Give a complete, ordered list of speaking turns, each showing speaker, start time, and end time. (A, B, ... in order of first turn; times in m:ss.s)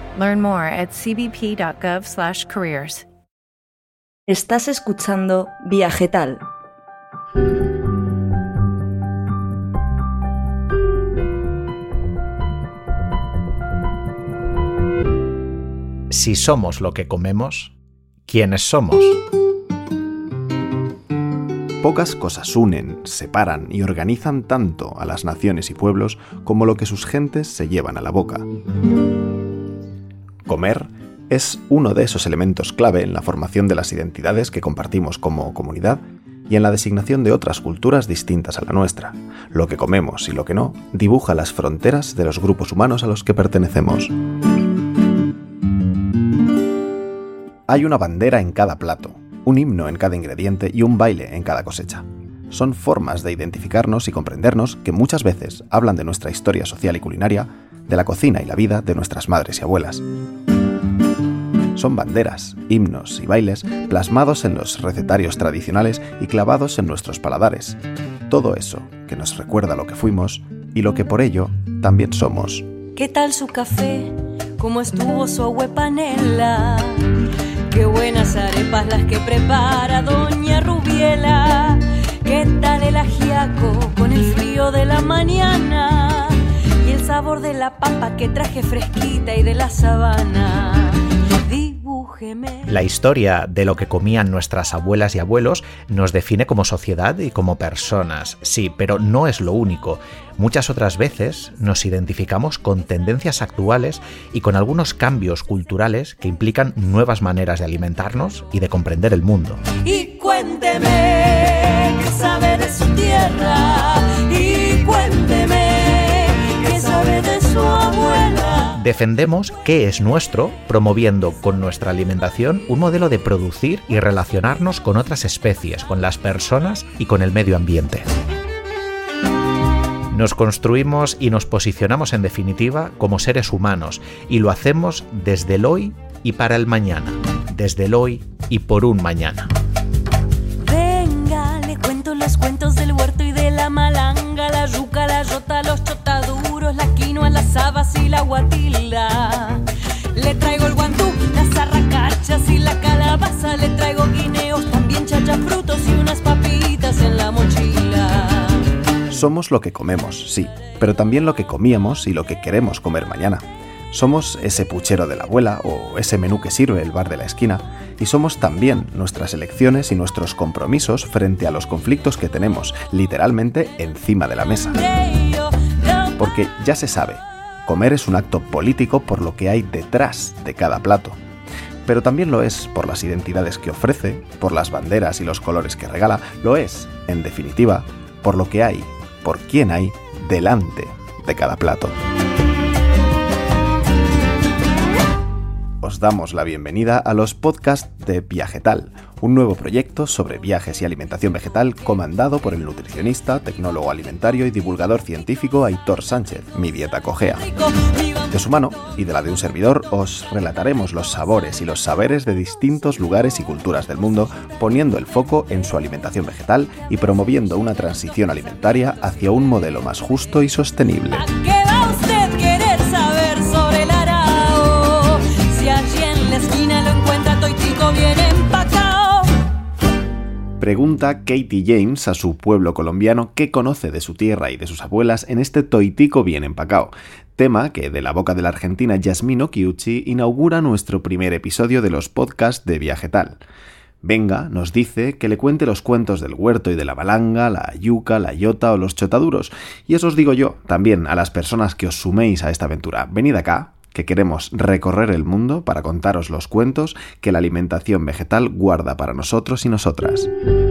0:00.2-0:03.1 A
0:04.3-0:06.4 B
0:16.1-0:17.8 C
0:18.3-0:19.2 C
0:21.8-0:28.4 D
0:30.5-0:44.1 D
0:47.7-1:00.0 D
1:01.7-1:12.7 D
1:13.0-1:32.7 E
1:32.7-1:49.6 C
1:49.8-1:58.7 E
1:58.7-2:08.1 C
2:10.1-2:19.5 C
2:20.6-2:38.8 E
2:39.1-2:54.8 D
2:54.8-2:56.2 E
2:56.2-3:01.2 D
3:01.9-3:12.0 D
3:15.8-3:27.5 D
3:27.5-3:28.3 E
3:28.3-3:41.3 D
3:41.2-3:49.5 E
3:50.6-4:03.4 D
4:04.0-4:20.3 D